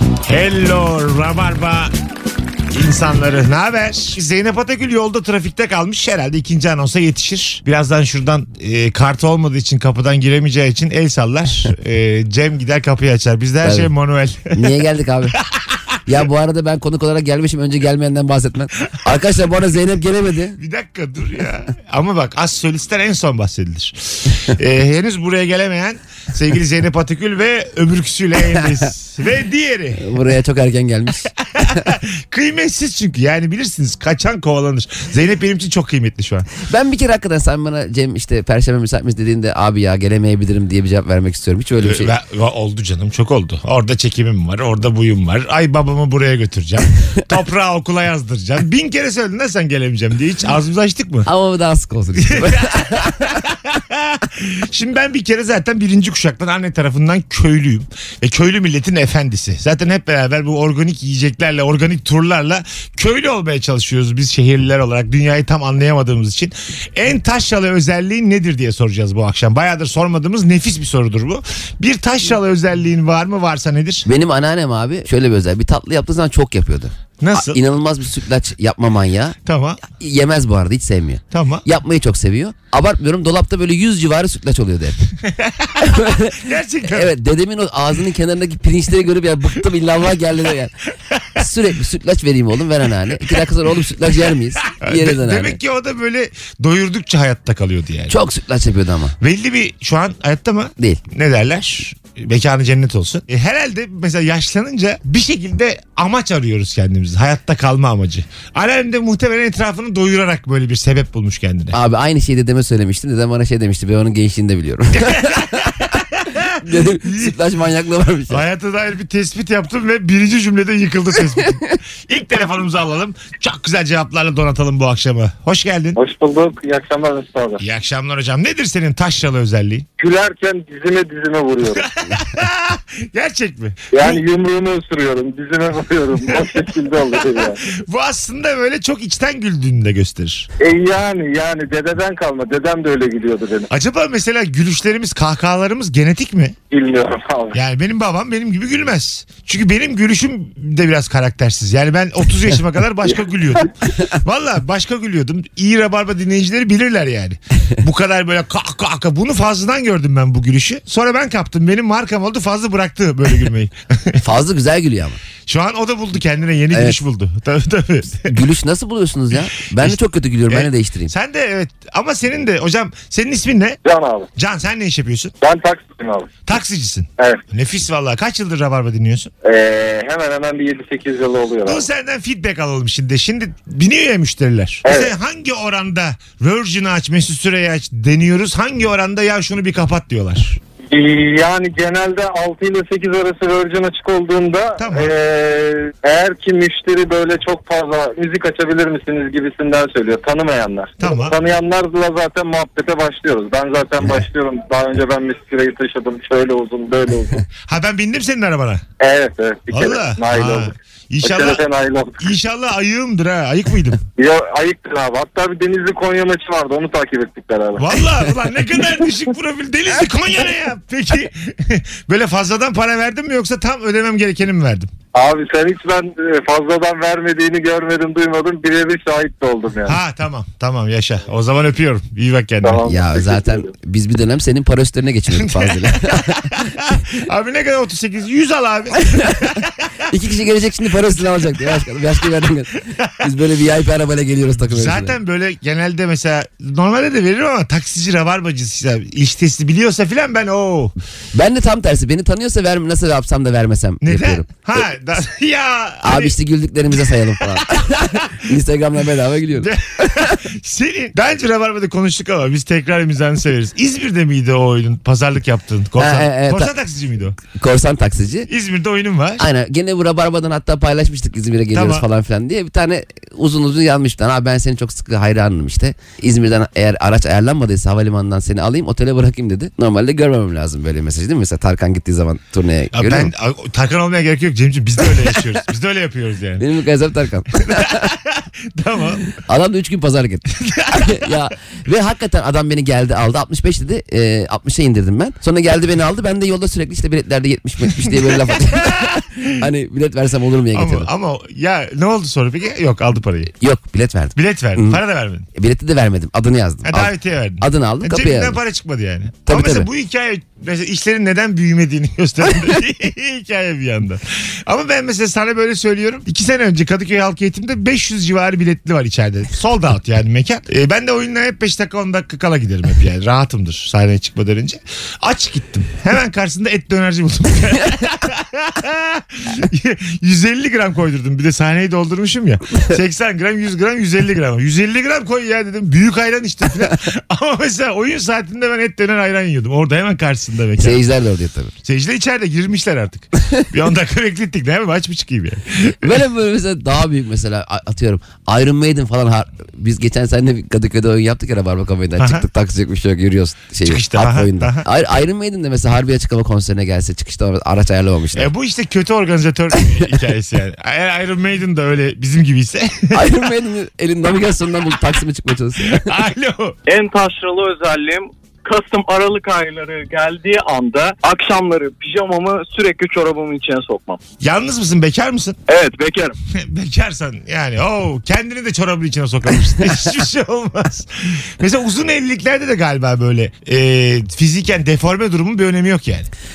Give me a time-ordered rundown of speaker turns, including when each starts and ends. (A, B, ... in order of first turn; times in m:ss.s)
0:00.3-0:01.9 A
0:02.7-0:14.8 A
0:13.6-0:13.9 B
0:14.5-0:15.4 B
0:16.1-0:20.6 B
0:20.6-0:30.2 A
0:30.0-0:31.9 B
0:31.4-0:36.5 A
0:36.6-0:42.1 B
0:41.8-0:51.3 A
0:51.3-0:53.4 B
0:52.2-1:14.1 A
1:14.0-1:19.4 B
1:17.2-1:17.6 A
1:19.5-1:19.8 A
1:19.9-1:25.0 B
1:21.3-1:21.6 A
1:25.3-1:27.1 A
1:25.8-1:30.7 B
1:31.1-1:31.4 A
1:31.4-1:35.6 B
1:34.6-1:38.2 A
1:38.1-1:39.2 B
1:39.2-1:51.8 A
1:51.7-1:55.9 B
1:55.0-1:57.4 A
1:56.6-1:58.4 B
1:58.3-2:06.0 A
2:06.0-2:07.6 C
2:07.6-2:09.9 A
2:10.0-2:11.9 C
2:11.6-2:14.2 A
2:13.9-2:17.6 C
2:17.7-2:20.5 A
2:20.6-2:23.7 C
2:23.7-2:26.6 A
2:26.7-2:27.6 C
2:27.5-2:44.2 A
2:44.2-2:45.2 B
2:45.5-2:48.3 A
2:46.7-2:47.0 B
2:48.2-2:51.1 B
2:49.7-2:53.8 A
2:53.8-2:54.3 C
2:54.4-2:55.3 A
2:55.4-2:56.3 C
2:56.5-2:59.3 A
2:59.4-3:01.8 C
3:01.7-3:10.6 A
3:04.8-3:05.1 C
3:10.9-3:27.4 C
3:14.8-3:15.1 A
3:21.0-3:21.4 A
3:27.7-3:28.8 A
3:29.0-3:30.7 C
3:29.7-3:31.6 A
3:31.2-3:32.2 C
3:32.2-3:34.0 A
3:34.2-3:37.9 C
3:37.8-3:44.9 A
3:45.2-3:50.0 C
3:49.9-3:52.8 A
3:52.6-3:53.7 C
3:52.9-3:56.6 B
3:55.3-3:59.9 A
4:00.1-4:05.2 B
4:04.7-4:11.0 A
4:11.3-4:14.8 B
4:14.0-4:16.3 A
4:16.0-4:20.4 B
4:17.7-4:18.3 A
4:19.6-4:27.4 A
4:26.0-4:26.7 B
4:27.5-4:28.5 B
4:28.5-4:29.4 A
4:29.4-4:43.3 B
4:31.7-4:32.0 A
4:42.9-4:46.6 A
4:46.6-4:48.1 B
4:47.7-4:49.4 A
4:49.4-5:01.1 B
4:50.6-4:51.3 A
4:58.0-4:59.6 A
5:00.7-5:03.5 A
5:03.5-5:05.0 B
5:04.4-5:05.5 A
5:05.5-5:08.6 B
5:06.8-5:41.0 A
5:09.5-5:09.9 B
5:40.8-5:41.7 B
5:41.8-5:46.2 A
5:46.0-5:58.5 B
5:52.2-5:52.4 A
5:53.8-5:54.9 A
5:58.3-6:03.4 A
5:59.7-6:00.2 B
6:03.1-6:06.1 B
6:05.8-6:06.8 A
6:06.9-6:14.2 D
6:14.4-6:15.6 A
6:15.7-6:16.4 D
6:16.5-6:26.3 A